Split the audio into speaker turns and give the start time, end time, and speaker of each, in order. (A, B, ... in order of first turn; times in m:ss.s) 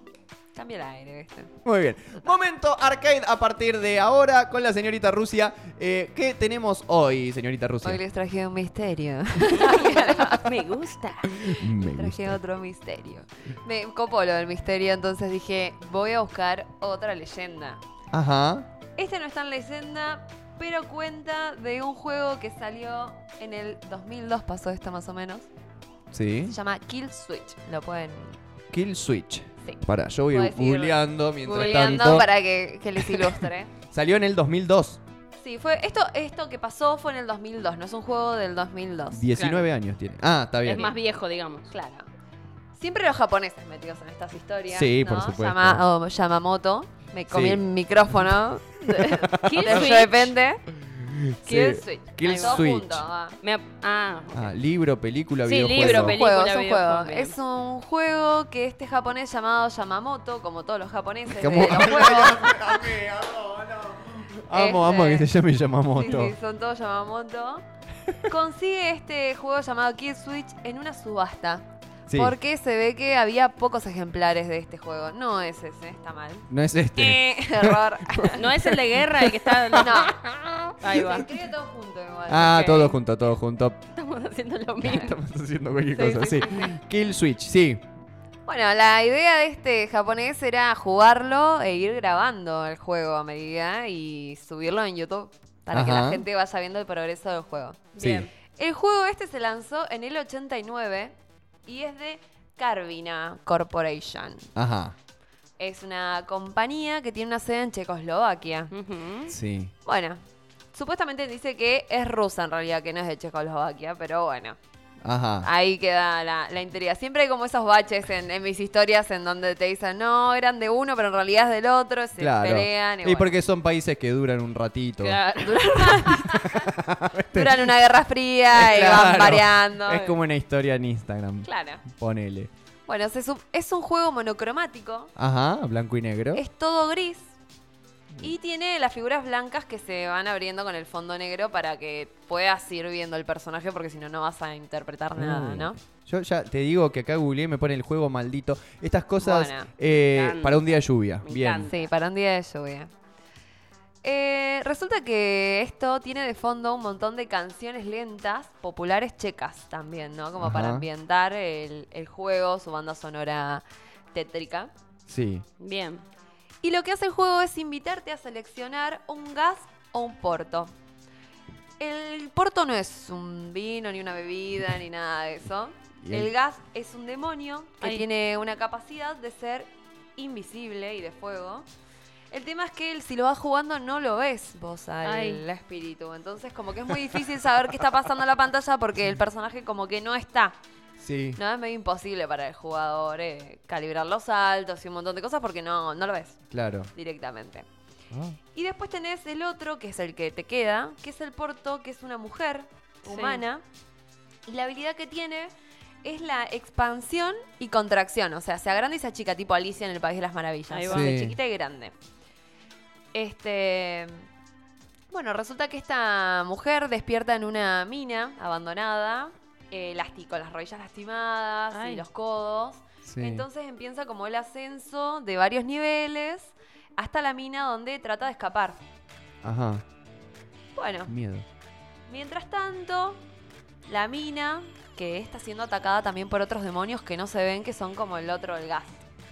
0:00.5-0:01.5 A
0:01.6-0:08.0 B
0:07.8-0:10.5 A
0:09.6-0:11.4 C
0:11.3-0:12.4 B
0:11.4-0:17.8 A
0:18.1-0:18.7 B
0:19.0-0:25.5 A
0:26.1-0:26.6 B
0:26.5-0:28.4 A
0:28.7-0:32.3 B
0:29.6-0:33.7 A
0:33.0-0:35.0 B
0:35.4-0:39.2 A
0:39.1-0:40.9 B
0:39.3-0:39.7 C
0:40.6-0:41.7 C
0:41.7-0:42.1 A
0:42.8-0:50.6 A
0:44.7-0:45.8 B
0:47.3-0:47.6 B
0:48.9-0:50.1 B
0:49.4-0:50.3 C
0:50.9-0:53.0 B
0:51.4-0:53.4 A
0:52.2-0:52.6 C
0:53.4-0:54.5 C
0:54.3-0:56.2 B
0:55.4-0:57.3 C
0:55.8-1:03.0 A
1:01.3-1:06.4 B
1:04.5-1:05.3 A
1:05.9-1:07.6 A
1:08.2-1:18.5 A
1:12.1-1:12.4 B
1:16.5-1:21.3 B
1:18.3-1:20.2 C
1:19.8-1:20.2 A
1:20.8-1:21.3 C
1:20.9-1:23.0 A
1:22.3-1:23.8 B
1:24.0-1:25.1 C
1:24.8-1:27.8 B
1:25.9-1:26.8 A
1:26.1-1:26.4 C
1:28.5-1:37.9 A
1:35.7-1:36.2 B
1:37.9-1:38.3 C
1:38.0-1:38.3 B
1:38.5-1:41.2 A
1:41.7-1:44.5 A
1:44.6-1:45.0 B
1:45.6-1:48.7 A
1:48.7-1:49.3 C
1:49.3-1:49.7 B
1:49.8-1:50.2 A
1:50.7-1:54.6 A
1:55.0-1:55.5 B
1:55.4-2:03.3 A
2:02.2-2:05.2 B
2:05.0-2:06.2 C
2:05.4-2:06.7 A
2:06.3-2:07.7 B
2:07.3-2:10.1 A
2:08.5-2:12.5 B
2:11.4-2:11.8 A
2:12.9-2:15.1 A
2:15.2-2:16.4 B
2:16.3-2:17.3 A
2:18.2-2:25.8 A
2:25.2-2:31.7 B
2:29.2-2:29.7 A
2:30.0-2:30.7 C
2:31.2-2:31.9 C
2:31.6-2:32.9 A
2:34.0-2:44.7 A
2:40.4-2:40.9 B
2:45.1-2:45.5 B
2:45.6-2:46.0 C
2:46.6-2:50.7 A
2:51.8-3:01.7 A
2:56.0-2:56.3 B
3:02.3-3:10.6 A
3:05.0-3:05.4 C
3:11.0-3:11.4 B
3:11.4-3:16.4 A
3:16.5-3:16.9 B
3:16.9-3:17.7 A
3:18.1-3:18.4 B
3:18.5-3:23.6 A
3:23.0-3:23.4 C
3:24.5-3:25.5 A
3:26.0-3:32.0 A
3:30.7-3:31.1 C
3:30.9-3:31.4 B
3:33.1-3:34.3 A
3:35.1-3:48.8 A
3:41.7-3:42.0 C
3:43.1-3:43.5 B
3:49.4-3:49.8 B
3:50.8-3:51.1 A
3:51.1-3:51.5 B
3:52.1-3:53.2 A
3:53.9-3:59.0 A